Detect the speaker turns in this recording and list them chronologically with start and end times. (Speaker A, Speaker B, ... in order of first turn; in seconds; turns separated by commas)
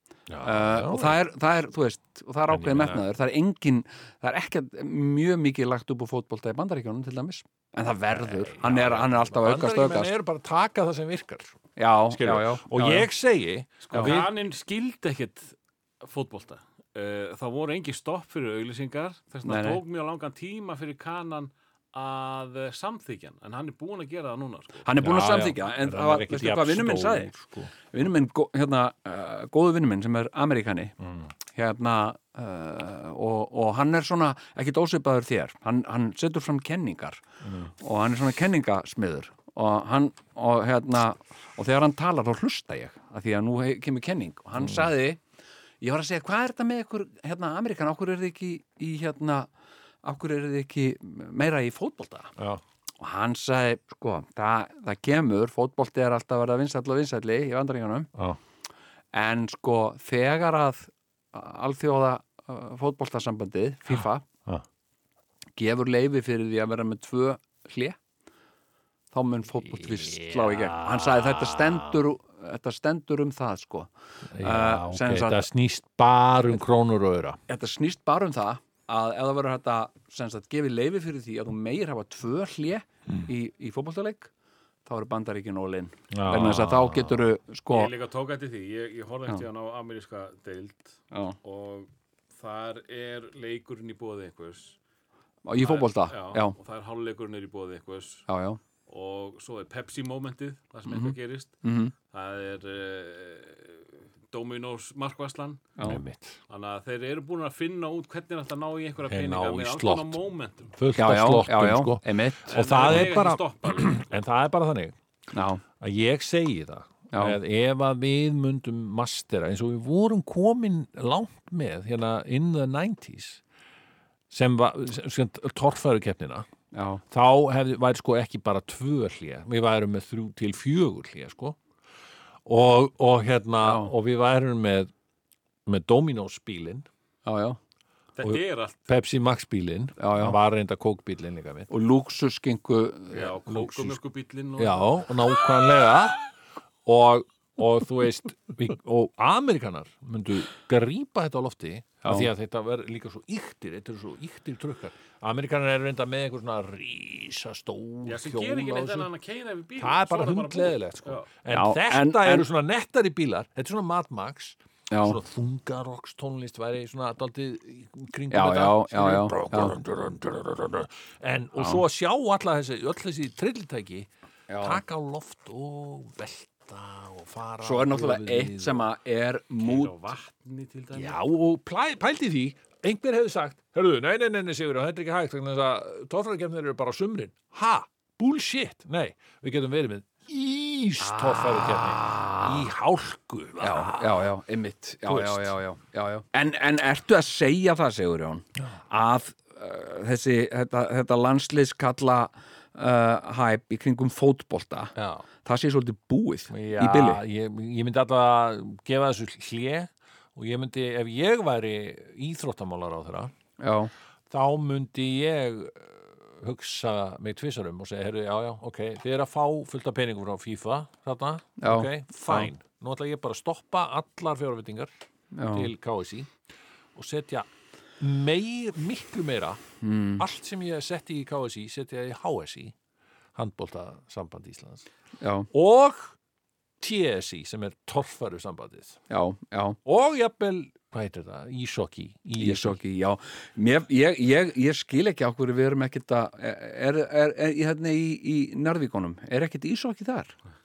Speaker A: 0.3-1.2, Speaker B: 0.4-10.1, Speaker A: 2.5-3.0, Speaker A: 8.1-11.6, Speaker B: 11.8-13.1, Speaker A: 12.1-14.3, Speaker C: 13.9-24.9, Speaker B: 13.9-14.2, Speaker B: 19.4-19.8, Speaker B: 24.8-30.9, Speaker A: 25.0-27.7, Speaker A: 31.0-31.3, Speaker B: 31.5-37.2, Speaker A: 37.4-37.7, Speaker B: 37.8-45.2, Speaker A: 44.6-44.9, Speaker B: 45.8-49.5, Speaker B: 50.0-52.3, Speaker A: 52.4-52.6, Speaker B: 53.0-58.1, Speaker B: 59.1-64.3, Speaker A: 63.9-64.6, Speaker B: 65.5-68.0, Speaker B: 69.1-75.5, Speaker A: 69.7-72.0, Speaker A: 74.3-77.4, Speaker B: 77.5-84.3, Speaker B: 84.8-87.9, Speaker A: 86.1-87.2, Speaker C: 87.7-94.8, Speaker B: 91.1-91.4, Speaker B: 95.4-96.5, Speaker C: 95.6-98.3, Speaker B: 98.3-98.6, Speaker C: 98.9-105.7, Speaker B: 100.9-101.9, Speaker A: 105.8-106.4, Speaker C: 106.5-110.8, Speaker A: 109.1-110.2, Speaker A: 110.7-115.0, Speaker B: 111.0-113.0, Speaker C: 112.5-114.0, Speaker B: 115.3-115.6, Speaker A: 115.8-123.4, Speaker B: 117.1-117.4, Speaker A: 124.3-126.5, Speaker B: 126.7-127.0, Speaker A: 127.1-131.6, Speaker A: 132.4-134.9, Speaker B: 133.6-133.9, Speaker A: 135.7-136.8, Speaker B: 137.2-137.6, Speaker C: 138.2-138.8, Speaker A: 138.2-141.7, Speaker B: 140.0-140.4, Speaker B: 141.7-143.9, Speaker C: 143.1-145.0, Speaker A: 144.6-146.2, Speaker A: 146.8-159.1, Speaker B: 152.0-152.3, Speaker C: 158.0-161.3, Speaker A: 159.8-174.1, Speaker B: 161.5-162.4, Speaker B: 164.9-165.2, Speaker B: 168.3-169.8, Speaker B: 171.6-171.8, Speaker B: 174.5-174.8, Speaker A: 174.6-178.9, Speaker B: 177.6-180.1, Speaker C: 179.6-181.2, Speaker A: 180.9-194.3, Speaker B: 191.0-192.7, Speaker B: 193.6-207.2, Speaker A: 195.0-195.6, Speaker A: 204.9-205.2, Speaker A: 206.5-213.3, Speaker B: 213.6-213.9, Speaker A: 214.3-224.9, Speaker B: 221.6-222.5, Speaker B: 225.3-225.7, Speaker A: 225.5-226.3, Speaker A: 226.9-227.5, Speaker A: 228.0-229.6, Speaker B: 229.8-230.2, Speaker A: 230.2-232.7, Speaker A: 233.3-234.8, Speaker B: 235.2-235.5, Speaker A: 235.5-236.2, Speaker A: 236.8-239.0, Speaker B: 239.1-239.8, Speaker A: 239.8-242.8, Speaker B: 242.4-250.3